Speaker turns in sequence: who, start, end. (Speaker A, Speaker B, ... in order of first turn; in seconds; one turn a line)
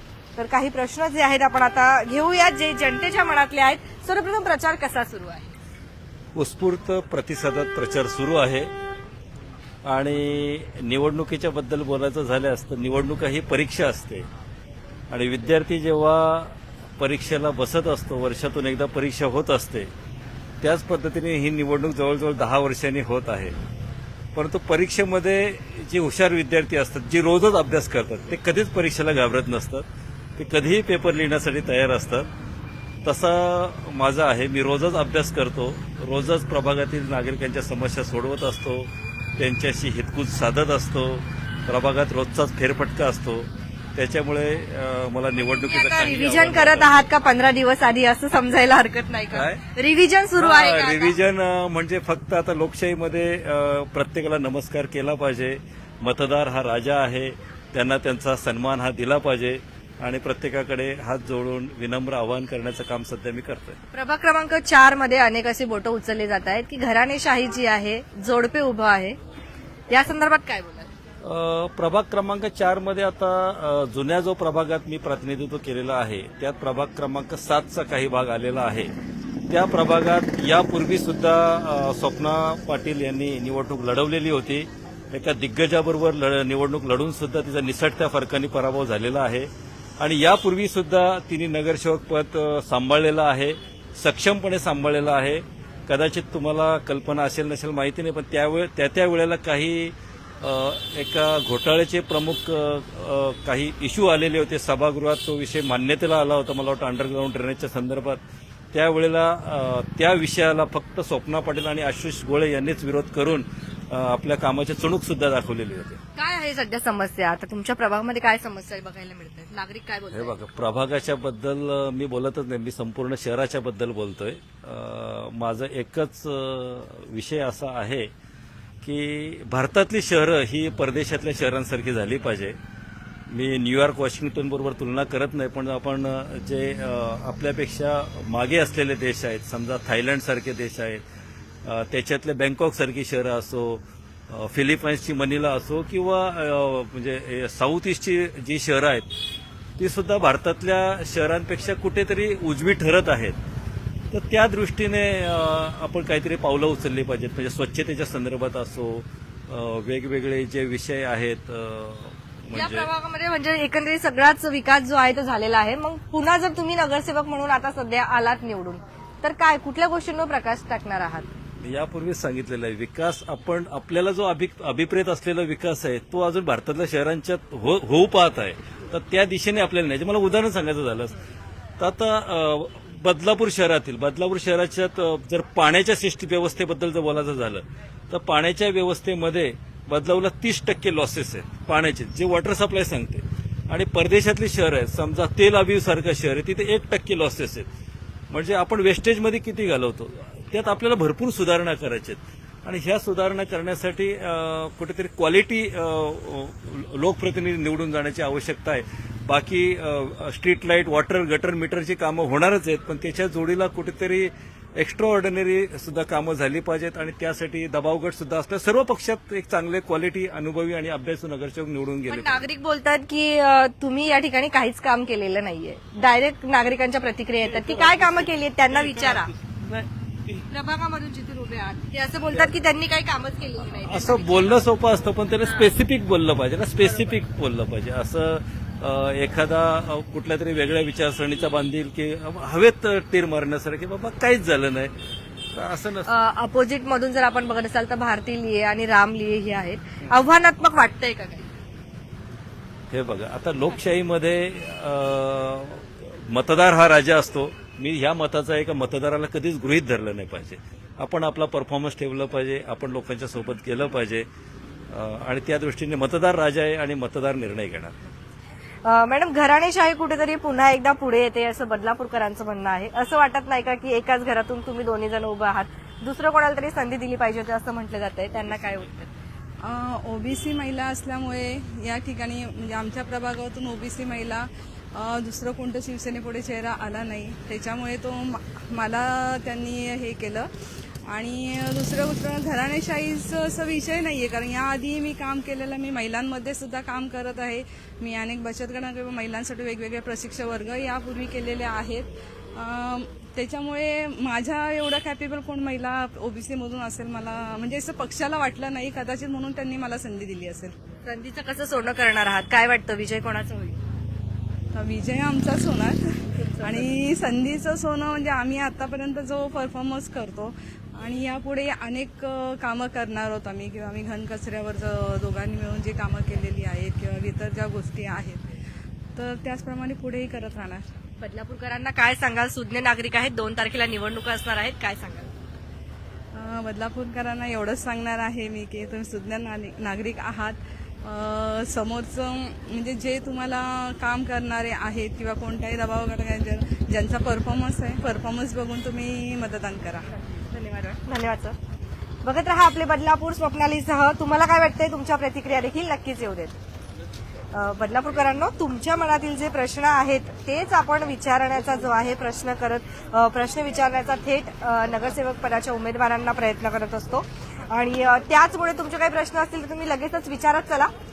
Speaker A: 0.4-5.5
Speaker B: 6.3-8.7
Speaker B: 9.8-14.3
Speaker B: 15.1-19.9
Speaker B: 20.6-23.6
Speaker B: 24.4-29.9
Speaker B: 30.4-32.3
Speaker B: 33.0-47.0
Speaker A: 45.4-51.2
Speaker B: 49.3-49.6
Speaker B: 50.4-63.8
Speaker A: 63.9-69.2
Speaker A: 69.9-70.9
Speaker B: 71.2-78.9
Speaker B: 79.5-108.2
Speaker B: 108.7-116.0
Speaker A: 116.2-120.3
Speaker B: 120.1-128.1
Speaker B: 128.8-132.6
Speaker B: 133.3-141.0
Speaker B: 141.7-149.1
Speaker B: 149.8-153.4
Speaker B: 154.1-162.9
Speaker A: 162.5-171.3
Speaker B: 171.6-181.2
Speaker B: 181.8-197.7
Speaker B: 198.3-222.4
Speaker A: 222.1-229.3
Speaker B: 227.4-230.4
Speaker A: 230.5-234.7
Speaker B: 233.8-244.9
Speaker A: 235.4-235.7
Speaker B: 245.5-246.1
Speaker A: 246.1-251.5
Speaker B: 252.9-264.2
Speaker B: 264.9-268.0
Speaker A: 268.9-279.1
Speaker C: 279.6-290.5
Speaker C: 291.1-310.8
Speaker A: 311.0-313.8
Speaker C: 314.7-328.4
Speaker A: 316.4-316.9
Speaker C: 329.2-330.9
Speaker A: 331.2-335.3
Speaker C: 336.3-350.1
Speaker A: 350.5-351.6
Speaker A: 352.2-356.6
Speaker A: 357.5-370.9